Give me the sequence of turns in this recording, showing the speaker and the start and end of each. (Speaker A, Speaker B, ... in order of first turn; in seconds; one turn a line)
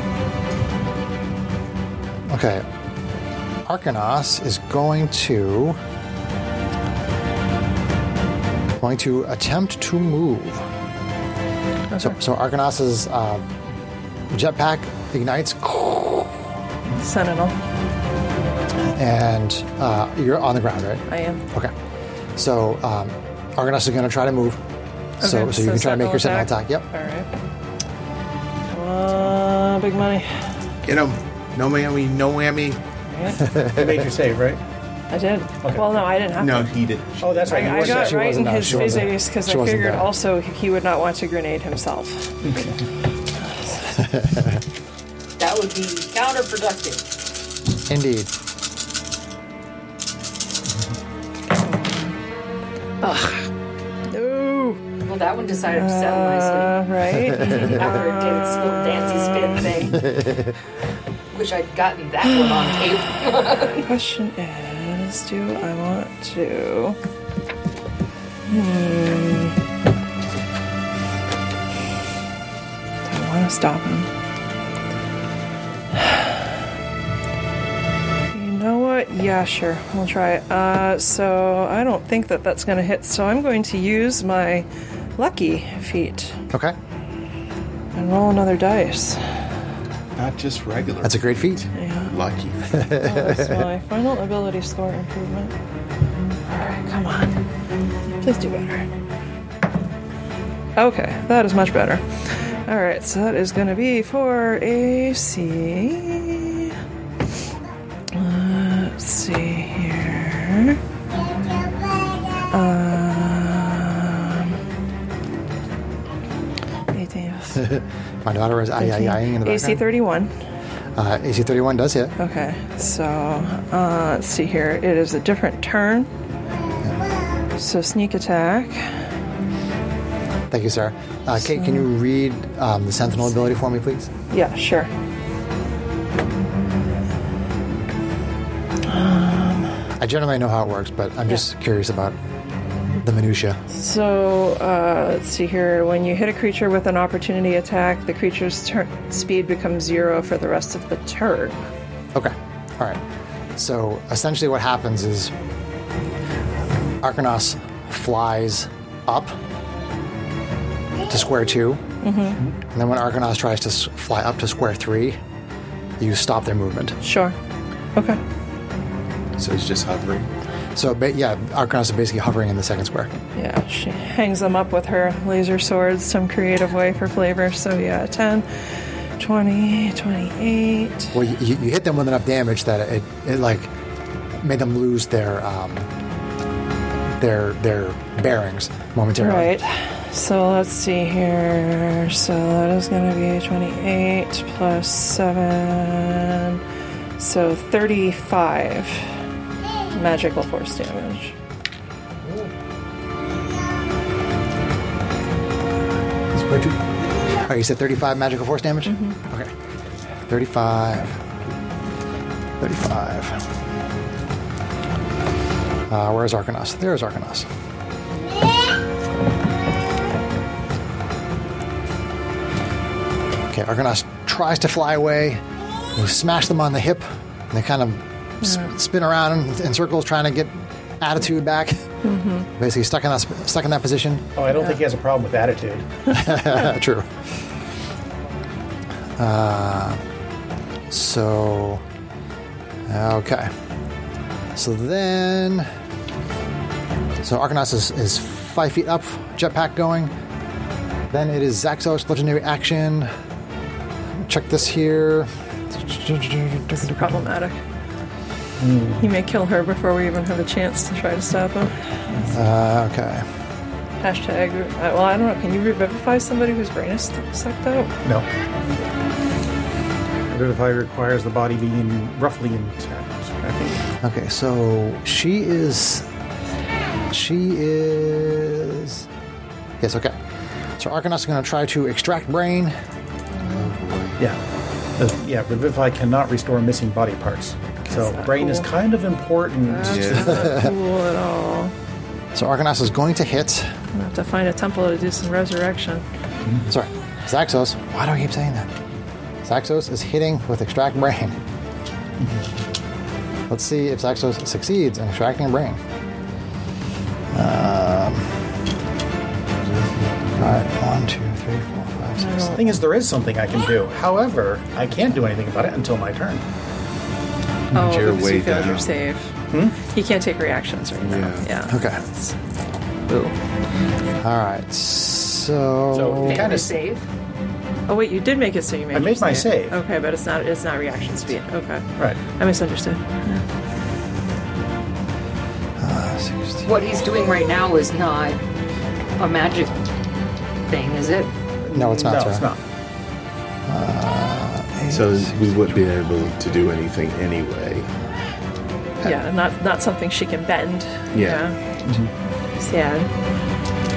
Speaker A: 2.3-2.6
Speaker A: 3.7-5.8
Speaker A: 8.8-10.7
Speaker B: 11.9-12.2
Speaker A: 12.0-13.4
Speaker A: 14.3-16.5
Speaker B: 16.9-17.6
Speaker A: 18.9-21.7
Speaker B: 21.1-21.4
Speaker A: 22.4-24.6
Speaker A: 25.2-26.9
Speaker B: 25.2-27.3
Speaker B: 28.7-30.4
Speaker C: 30.9-32.8
Speaker B: 33.1-33.4
Speaker A: 33.4-34.0
Speaker D: 33.6-34.6
Speaker B: 35.1-36.8
Speaker C: 36.4-37.8
Speaker D: 37.2-38.7
Speaker B: 37.5-42.4
Speaker A: 37.7-40.1
Speaker D: 42.4-42.8
Speaker A: 44.0-44.6
Speaker E: 45.4-47.0
Speaker A: 47.9-48.3
Speaker B: 51.5-52.1
Speaker B: 53.0-53.5
Speaker B: 54.1-54.8
Speaker E: 55.0-56.8
Speaker B: 55.8-58.0
Speaker E: 57.4-60.1
Speaker A: 59.9-60.5
Speaker E: 61.3-63.8
Speaker B: 63.7-67.0
Speaker B: 68.5-69.6
Speaker B: 73.1-74.1
Speaker B: 76.0-76.4
Speaker B: 78.3-86.5
Speaker B: 88.0-89.2
Speaker C: 90.2-92.8
Speaker A: 91.0-91.7
Speaker B: 91.8-92.2
Speaker A: 92.7-93.7
Speaker B: 92.9-95.5
Speaker B: 96.5-97.4
Speaker B: 98.1-98.9
Speaker B: 100.8-102.0
Speaker B: 102.7-106.7
Speaker B: 108.1-110.8
Speaker B: 112.5-114.6
Speaker B: 116.9-117.7
Speaker A: 117.6-119.9
Speaker B: 118.8-120.3
Speaker A: 121.0-122.2
Speaker B: 122.2-126.1
Speaker B: 127.6-128.9
Speaker A: 130.5-134.1
Speaker B: 131.4-131.9
Speaker B: 134.3-134.9
Speaker B: 138.9-139.8
Speaker A: 140.0-142.2
Speaker A: 143.0-143.6
Speaker B: 143.7-151.6
Speaker A: 152.2-153.0
Speaker A: 153.6-155.3
Speaker A: 157.0-159.4
Speaker A: 161.1-161.8
Speaker B: 162.0-162.4
Speaker A: 162.7-165.2
Speaker A: 166.0-167.0
Speaker B: 167.0-167.3
Speaker C: 169.4-170.3
Speaker A: 170.8-173.1
Speaker B: 173.4-178.5
Speaker B: 179.2-181.1
Speaker A: 181.1-183.7
Speaker A: 184.4-185.9
Speaker A: 187.2-189.6
Speaker B: 189.2-196.6
Speaker B: 197.2-199.1
Speaker B: 199.9-201.4
Speaker A: 202.2-202.5
Speaker A: 206.3-206.8
Speaker A: 207.4-209.5
Speaker B: 208.9-209.2
Speaker A: 210.3-211.2
Speaker A: 212.6-213.4
Speaker A: 215.9-217.5
Speaker A: 223.5-225.4
Speaker A: 225.9-231.8
Speaker B: 228.4-228.7
Speaker B: 232.0-232.5
Speaker A: 232.6-234.3
Speaker D: 234.4-235.9
Speaker A: 236.1-237.1
Speaker A: 239.2-240.0
Speaker A: 240.9-241.8
Speaker A: 242.9-243.5
Speaker A: 244.6-245.7
Speaker A: 247.2-250.1
Speaker A: 251.1-253.1
Speaker A: 254.2-257.3
Speaker B: 256.8-257.6
Speaker D: 258.6-259.1
Speaker B: 259.0-261.8
Speaker A: 262.2-263.2
Speaker B: 264.0-267.9
Speaker D: 270.3-273.4
Speaker B: 273.4-273.8
Speaker A: 274.0-276.1
Speaker A: 277.1-279.1
Speaker A: 279.8-280.2
Speaker A: 280.8-282.8
Speaker C: 283.4-284.2
Speaker D: 285.0-290.4
Speaker B: 287.9-288.7
Speaker B: 289.6-291.7
Speaker C: 289.8-290.6
Speaker A: 290.4-290.7
Speaker A: 292.3-293.7
Speaker B: 293.9-296.0
Speaker A: 296.7-298.7
Speaker A: 299.4-301.4
Speaker A: 303.5-305.8
Speaker A: 307.3-308.4
Speaker C: 309.6-310.4
Speaker A: 310.4-312.8
Speaker B: 312.2-312.7
Speaker D: 312.6-316.4
Speaker B: 317.7-322.4
Speaker C: 317.7-318.9
Speaker D: 319.5-319.8
Speaker C: 321.0-321.5
Speaker A: 321.7-322.0
Speaker B: 323.1-323.4
Speaker A: 324.2-326.6
Speaker D: 325.9-326.7
Speaker E: 326.2-327.1
Speaker B: 327.9-333.4
Speaker D: 328.9-329.8
Speaker A: 335.8-336.7
Speaker E: 336.6-338.4
Speaker E: 339.2-339.8
Speaker E: 340.7-341.3
Speaker D: 341.6-342.6
Speaker A: 341.7-342.5
Speaker A: 343.7-345.7
Speaker C: 344.9-347.9
Speaker B: 349.0-351.6
Speaker C: 351.1-351.4
Speaker B: 352.6-353.1